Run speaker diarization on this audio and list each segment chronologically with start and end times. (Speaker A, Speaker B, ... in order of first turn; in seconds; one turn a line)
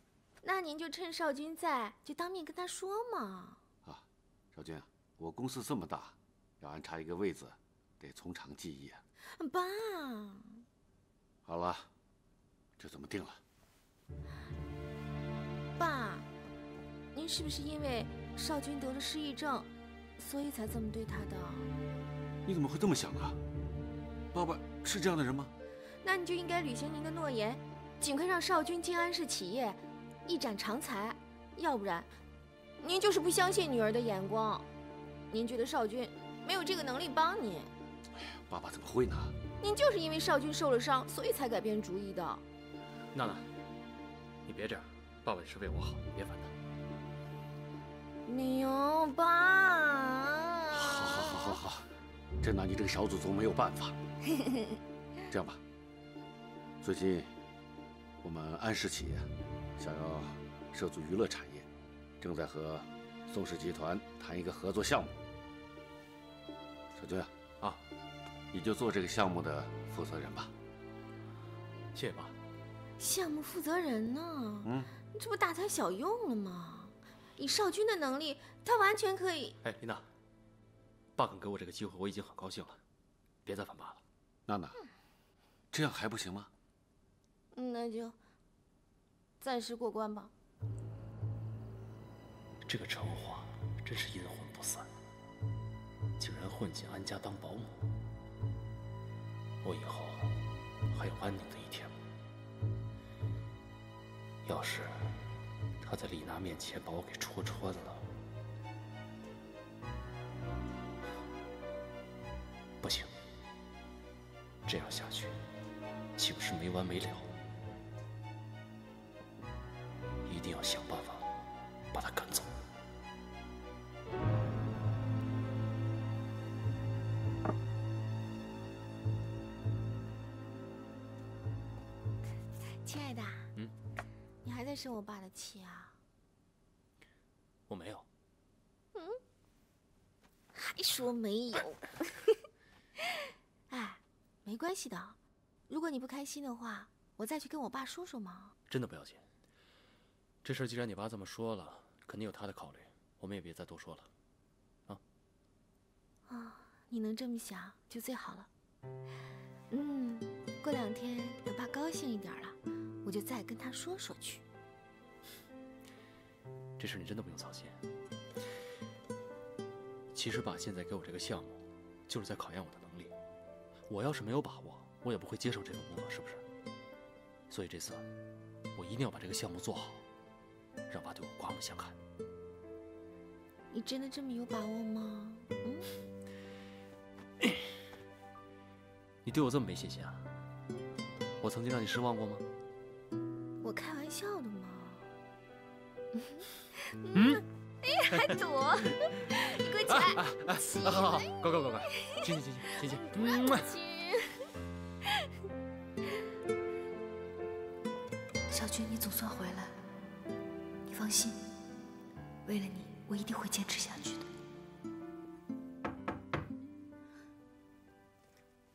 Speaker A: 0.4-3.6
Speaker B: 3.9-9.0
Speaker A: 9.4-10.6
Speaker B: 11.5-11.9
Speaker B: 12.8-13.4
Speaker A: 15.8-16.3
Speaker A: 17.1-21.7
Speaker B: 22.4-23.4
Speaker B: 24.3-25.5
Speaker A: 26.0-32.1
Speaker A: 32.8-34.7
Speaker A: 35.3-37.7
Speaker B: 38.5-39.3
Speaker A: 39.6-42.4
Speaker C: 43.1-43.4
Speaker C: 44.5-46.5
Speaker A: 48.2-51.5
Speaker B: 50.7-51.9
Speaker B: 52.4-54.0
Speaker B: 55.3-55.6
Speaker B: 56.8-57.3
Speaker B: 58.2-61.6
Speaker B: 62.2-65.2
Speaker B: 67.0-67.3
Speaker B: 68.5-70.5
Speaker C: 71.9-72.3
Speaker A: 73.0-79.6
Speaker B: 74.6-74.9
Speaker C: 79.6-80.0
Speaker C: 81.2-82.8
Speaker C: 83.4-84.0
Speaker B: 84.5-84.8
Speaker B: 85.7-86.5
Speaker A: 87.5-88.2
Speaker A: 89.4-90.3
Speaker C: 92.6-94.9
Speaker C: 96.2-97.9
Speaker C: 99.6-100.3
Speaker C: 100.9-101.9
Speaker C: 104.4-105.1
Speaker C: 105.8-108.0
Speaker C: 112.8-113.1
Speaker C: 114.6-115.4
Speaker C: 116.2-117.3
Speaker C: 120.2-121.3
Speaker C: 121.9-122.5
Speaker A: 132.8-133.5
Speaker A: 134.4-135.9
Speaker C: 137.7-138.0
Speaker A: 140.5-142.1
Speaker A: 143.7-145.2
Speaker A: 145.7-148.5
Speaker C: 148.7-149.2
Speaker C: 150.4-154.1
Speaker A: 156.3-158.5
Speaker A: 159.7-164.4
Speaker C: 166.8-167.8
Speaker C: 170.1-173.1
Speaker C: 173.9-176.4
Speaker C: 177.5-178.1
Speaker C: 178.7-180.0
Speaker C: 180.9-181.9
Speaker A: 183.7-185.9
Speaker C: 189.2-190.2
Speaker C: 191.4-192.4
Speaker A: 193.6-195.0
Speaker A: 196.9-200.2
Speaker C: 197.1-197.4
Speaker C: 198.1-198.4
Speaker C: 199.8-203.7
Speaker A: 200.8-201.2
Speaker A: 202.9-204.5
Speaker D: 208.5-209.7
Speaker D: 210.9-211.4
Speaker D: 212.4-214.3